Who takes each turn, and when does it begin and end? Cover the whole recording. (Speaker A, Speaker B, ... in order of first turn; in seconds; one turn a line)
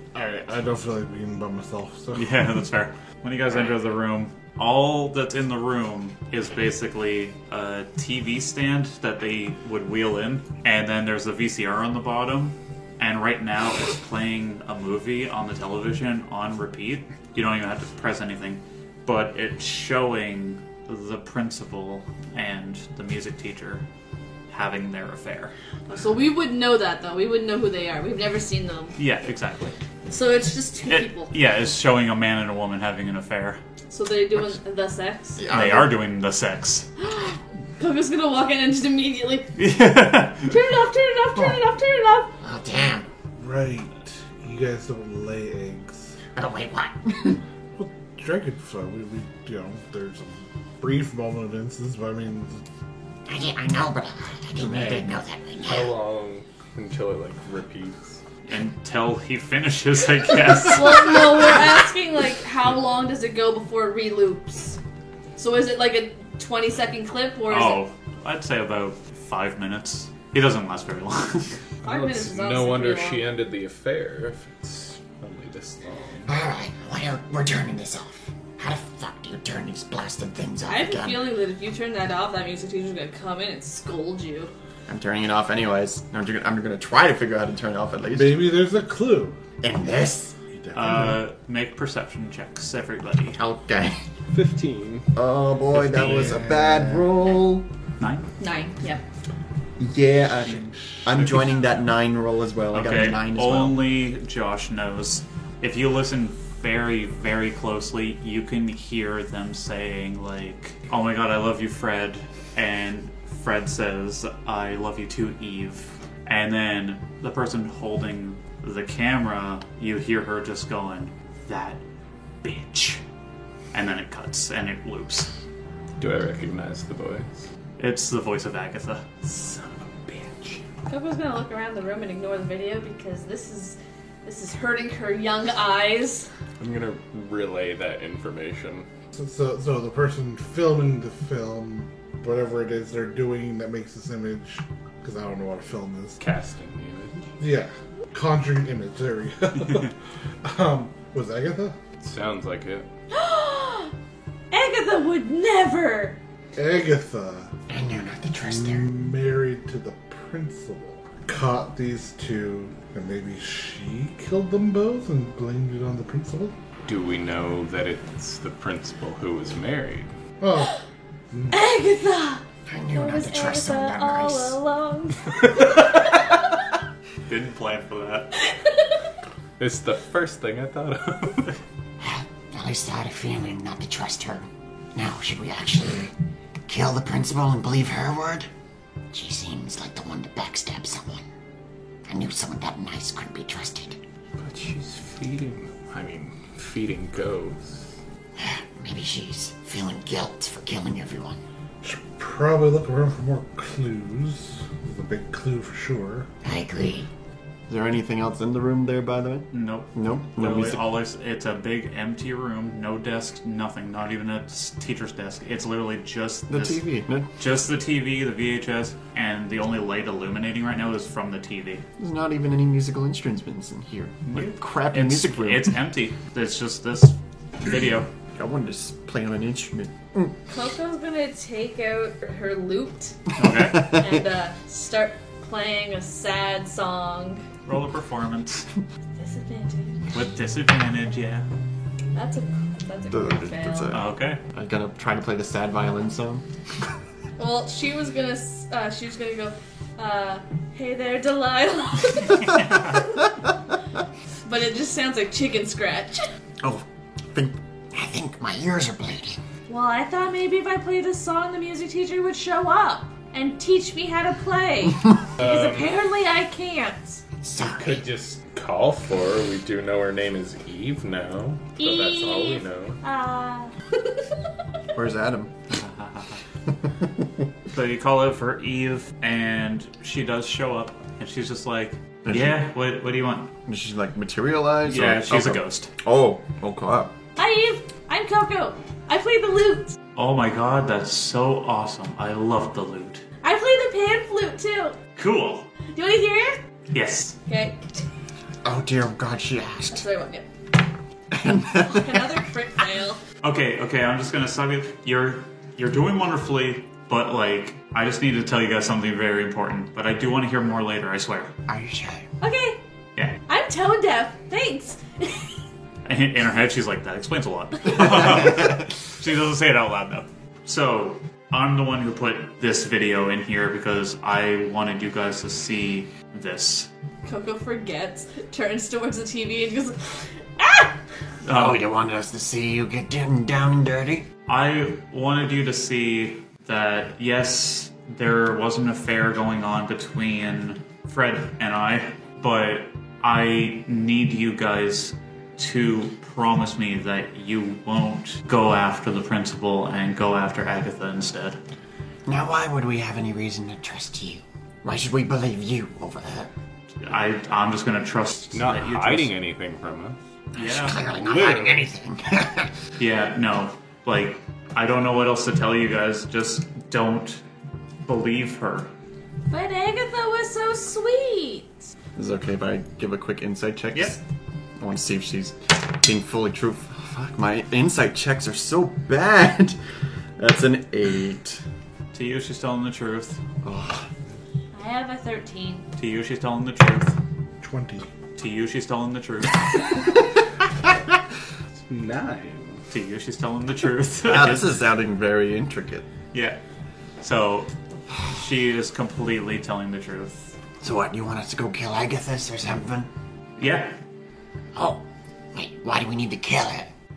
Speaker A: 0.1-2.4
Speaker B: 2.1-23.9
Speaker B: 24.5-25.5
Speaker C: 25.9-29.0
Speaker B: 29.0-29.8
Speaker C: 30.1-31.3
Speaker B: 30.9-33.6
Speaker C: 33.9-35.4
Speaker D: 35.4-35.9
Speaker B: 35.5-36.9
Speaker C: 37.0-39.5
Speaker B: 39.5-40.5
Speaker C: 40.5-42.3
Speaker E: 42.4-43.1
Speaker A: 43.4-46.1
Speaker E: 46.4-47.4
Speaker A: 47.8-52.6
Speaker E: 53.3-55.9
Speaker F: 55.6-58.2
Speaker B: 58.5-61.5
Speaker C: 60.6-64.8
Speaker C: 65.4-67.8
Speaker B: 67.5-71.6
Speaker F: 71.8-76.3
Speaker C: 71.8-73.3
Speaker E: 76.3-81.3
Speaker C: 80.7-84.5
Speaker D: 84.9-88.4
Speaker A: 88.1-89.4
Speaker E: 89.6-90.3
Speaker A: 90.5-91.2
Speaker B: 90.7-93.4
Speaker E: 93.4-94.0
Speaker F: 94.3-95.1
Speaker D: 95.2-97.7
Speaker A: 95.8-97.1
Speaker B: 98.0-98.3
Speaker C: 98.4-99.0
Speaker D: 99.8-103.8
Speaker B: 102.7-121.8
Speaker B: 122.4-123.0
Speaker B: 123.7-125.3
Speaker F: 126.0-127.5
Speaker B: 127.8-129.1
Speaker F: 129.2-130.6
Speaker C: 130.9-136.3
Speaker F: 136.6-138.9
Speaker A: 139.1-146.2
Speaker F: 146.2-147.3
Speaker A: 147.4-151.8
Speaker B: 149.6-149.9
Speaker F: 152.0-152.9
Speaker C: 153.1-153.9
Speaker C: 154.5-156.2
Speaker A: 156.6-157.5
Speaker E: 157.7-158.9
Speaker A: 158.6-166.6
Speaker F: 166.9-170.1
Speaker A: 170.4-170.7
Speaker A: 171.3-171.6
Speaker C: 171.5-175.8
Speaker E: 172.7-174.6
Speaker B: 177.3-178.3
Speaker C: 178.5-178.9
Speaker F: 179.6-181.6
Speaker E: 182.0-186.1
Speaker E: 186.7-188.5
Speaker E: 189.1-191.2
Speaker E: 192.1-194.0
Speaker F: 194.4-197.9
Speaker E: 198.4-201.4
Speaker A: 201.8-206.3
Speaker E: 206.4-207.1
Speaker D: 207.7-210.8
Speaker B: 209.5-216.8
Speaker D: 216.5-217.3
Speaker B: 217.4-221.8
Speaker D: 222.0-225.7
Speaker B: 224.3-228.1
Speaker D: 228.4-230.3
Speaker C: 230.5-233.2
Speaker B: 233.4-233.9
Speaker C: 233.8-237.4
Speaker B: 237.7-238.7
Speaker C: 239.2-240.0
Speaker B: 240.1-241.5
Speaker C: 242.2-244.0
Speaker D: 243.1-246.4
Speaker B: 243.9-244.4
Speaker C: 247.4-253.3
Speaker B: 252.5-253.0
Speaker C: 254.5-256.3
Speaker E: 257.4-259.4
Speaker C: 259.7-267.2
Speaker F: 265.4-265.9
Speaker E: 267.4-268.1
Speaker F: 267.6-273.0
Speaker C: 271.8-273.7
Speaker D: 274.9-275.5
Speaker B: 275.7-276.4
Speaker B: 277.7-283.5
Speaker D: 282.2-282.7
Speaker D: 283.7-287.1
Speaker B: 284.9-285.9
Speaker C: 287.4-290.0
Speaker B: 290.2-293.2
Speaker C: 293.4-295.0
Speaker B: 295.2-295.7
Speaker C: 295.9-296.6
Speaker B: 296.9-297.4
Speaker C: 297.5-297.8
Speaker E: 298.6-300.0
Speaker C: 299.9-300.5
Speaker D: 301.3-302.2
Speaker C: 301.8-303.2
Speaker B: 303.4-311.5
Speaker E: 311.7-312.3
Speaker C: 312.4-312.8
Speaker B: 313.2-313.4
Speaker C: 313.5-315.5
Speaker B: 316.1-326.9
Speaker C: 327.2-331.0
Speaker B: 331.4-331.8
Speaker E: 331.5-334.3
Speaker B: 334.5-351.6
Speaker E: 352.3-356.5
Speaker B: 357.0-359.3
Speaker F: 358.5-360.2
Speaker B: 360.5-361.0
Speaker E: 360.6-362.7
Speaker F: 361.3-361.8
Speaker B: 363.0-367.4
Speaker B: 368.1-368.9
Speaker C: 369.5-371.9
Speaker D: 372.2-374.2
Speaker D: 374.8-379.8
Speaker D: 380.4-381.6
Speaker B: 382.1-383.4
Speaker D: 383.6-384.1
Speaker C: 384.7-385.9
Speaker B: 386.0-387.2
Speaker A: 387.6-388.1
Speaker B: 388.4-390.0
Speaker F: 391.9-392.8
Speaker B: 392.9-394.7
Speaker D: 394.2-396.1
Speaker B: 396.3-396.6
Speaker B: 397.2-397.7
Speaker B: 398.2-400.6
Speaker E: 400.8-403.1
Speaker B: 403.6-404.0
Speaker E: 404.8-406.9